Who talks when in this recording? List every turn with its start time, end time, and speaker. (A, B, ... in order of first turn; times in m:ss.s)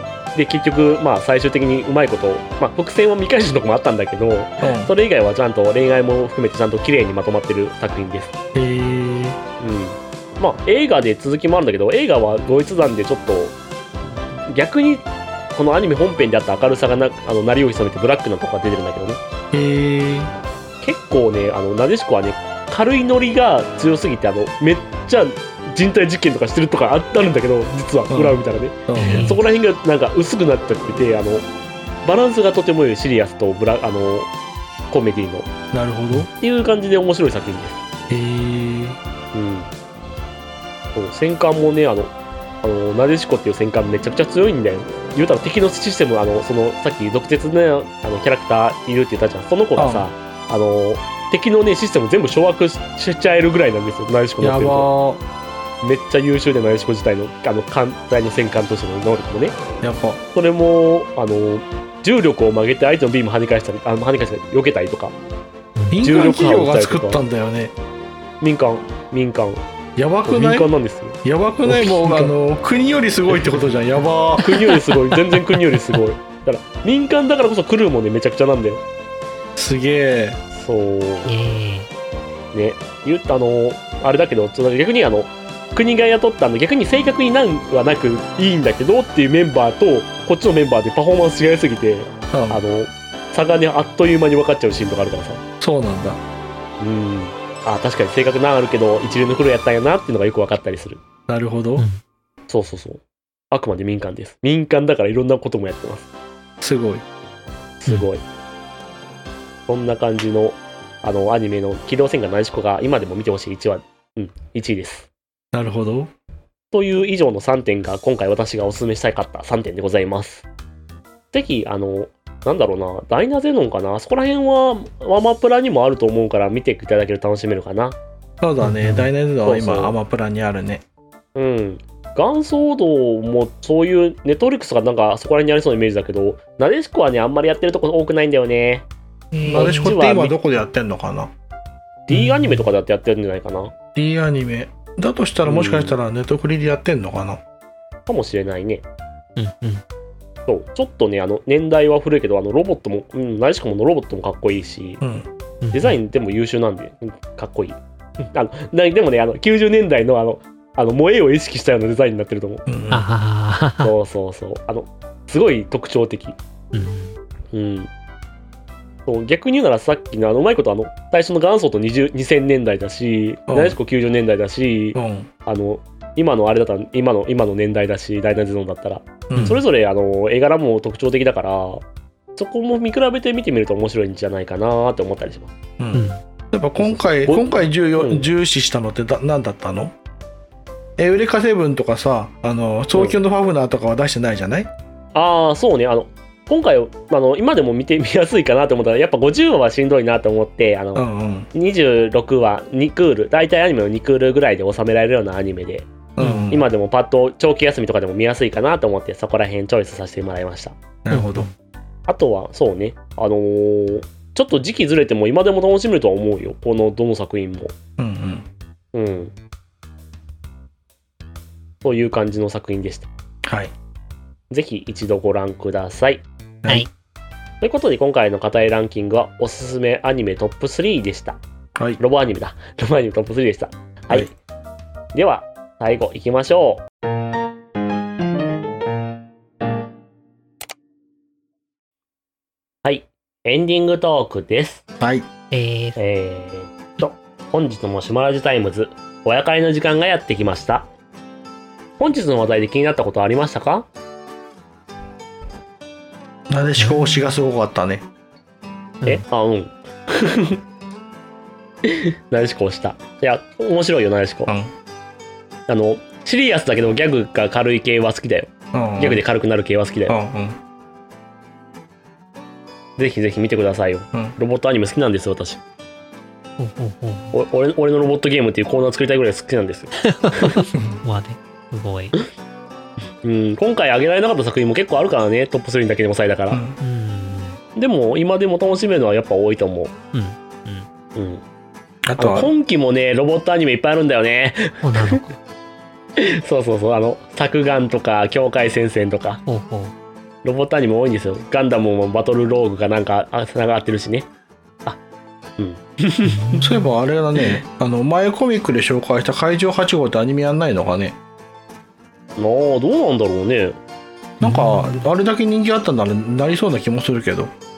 0:00.4-0:08.3 A
0:04.6-0:04.9 B
0:08.5-0:09.4 B
0:09.6-0:13.6 A
0:14.5-0:19.2 A
0:19.5-0:20.3 B
0:20.8-0:31.5 A
0:28.1-0:29.4 B
0:29.0-0:29.4 C
0:32.0-0:34.3 A
0:34.9-0:35.5 A
0:35.7-0:36.3 B
0:36.3-0:37.8 A
0:38.1-0:39.0 B
0:39.3-0:39.7 A
0:41.0-0:54.9 A
0:49.8-0:50.1 B
0:54.4-0:55.2 B
0:55.8-0:59.6 A
0:59.8-1:00.2 B
1:00.3-1:05.2 A
1:05.8-1:06.0 C
1:05.9-1:07.7 B
1:06.0-1:07.2 A
1:08.4-1:09.6 A
1:10.0-1:10.7 B
1:10.3-1:11.2 A
1:11.2-1:14.5 B
1:11.7-1:12.3 C
1:14.4-1:18.8 A
1:14.7-1:15.6 C
1:19.6-1:20.4 B
1:20.5-1:21.3 A
1:21.2-1:21.9 C
1:22.5-1:35.4 A
1:32.3-1:32.6 B
1:35.6-1:36.2 B
1:36.8-1:41.0 A
1:41.3-1:41.9 B
1:42.5-1:46.1 A
1:46.6-1:47.0 B
1:47.8-1:48.2 A
1:49.7-1:55.1 A
1:55.5-1:56.1 B
1:56.7-2:00.5 A
2:01.3-2:08.0 A
2:08.4-2:10.8 B
2:08.6-2:09.1 C
2:09.4-2:10.0 A
2:11.4-2:18.9 A
2:19.3-2:19.9 C
2:19.5-2:21.3 B
2:19.5-2:20.4 A
2:22.1-2:23.7 A
2:22.1-2:22.7 C
2:24.0-2:27.4 B
2:25.4-2:26.0 A
2:28.1-2:28.8 A
2:29.4-2:29.8 C
2:30.5-2:35.0 A
2:35.0-2:35.3 B
2:35.6-2:36.0 C
2:35.7-2:42.7 A
2:42.7-2:43.0 B
2:42.9-2:43.9 C
2:43.8-2:46.4 A
2:46.7-2:47.2 C
2:47.5-2:47.9 A
2:49.1-3:01.8 A
2:53.5-2:53.8 B
2:55.0-2:55.3 B
2:59.3-2:59.6 B
2:59.4-2:59.6 C
3:02.4-3:05.5 A
3:05.8-3:09.9 B
3:05.9-3:06.2 C
3:06.8-3:08.3 A
3:11.0-3:14.7 B
3:15.1-3:25.9 A
3:21.0-3:21.5 B
3:26.2-3:26.6 B
3:26.2-3:26.5 C
3:26.5-3:30.8 A
3:31.0-3:31.5 B
3:31.1-3:31.5 C
3:32.1-3:37.7 A
3:38.0-3:38.5 B
3:38.9-3:39.3 A
3:41.8-3:43.1 A
3:43.4-3:43.7 B
3:44.5-3:46.2 A
3:46.6-3:46.9 B
3:47.6-3:51.4 A
3:51.8-3:52.0 B
3:52.0-3:54.3 A
3:55.1-3:56.8 A
4:02.8-4:04.8 A
4:05.0-4:05.3 B
4:05.5-4:06.0 C
4:06.0-4:10.9 A
4:12.0-4:13.9 A
4:16.5-4:18.0 B
4:16.8-4:17.4 C
4:19.0-4:20.6 A
4:21.8-4:24.5 A
4:25.7-4:30.2 A
4:28.7-4:29.2 B
4:30.1-4:30.6 B
4:33.0-4:35.6 A
4:36.6-4:37.3 C
4:37.3-4:40.6 A
4:40.0-4:42.1 C
4:40.7-4:41.0 B
4:43.2-4:46.6 A
4:46.5-4:46.8 B
4:46.8-4:47.6 C
4:47.8-4:49.9 A
4:50.1-4:50.9 C
4:51.2-4:51.4 A
4:52.0-4:52.5 B
4:52.2-4:55.2 A
4:54.8-4:55.3 C
4:56.2-4:59.4 A
4:59.5-4:59.9 C
5:00.4-5:04.3 A
5:05.6-5:06.6 A
5:06.2-5:06.9 C
5:06.6-5:11.2 B
5:12.4-5:13.8 A
5:14.4-5:15.1 C
5:14.4-5:17.5 B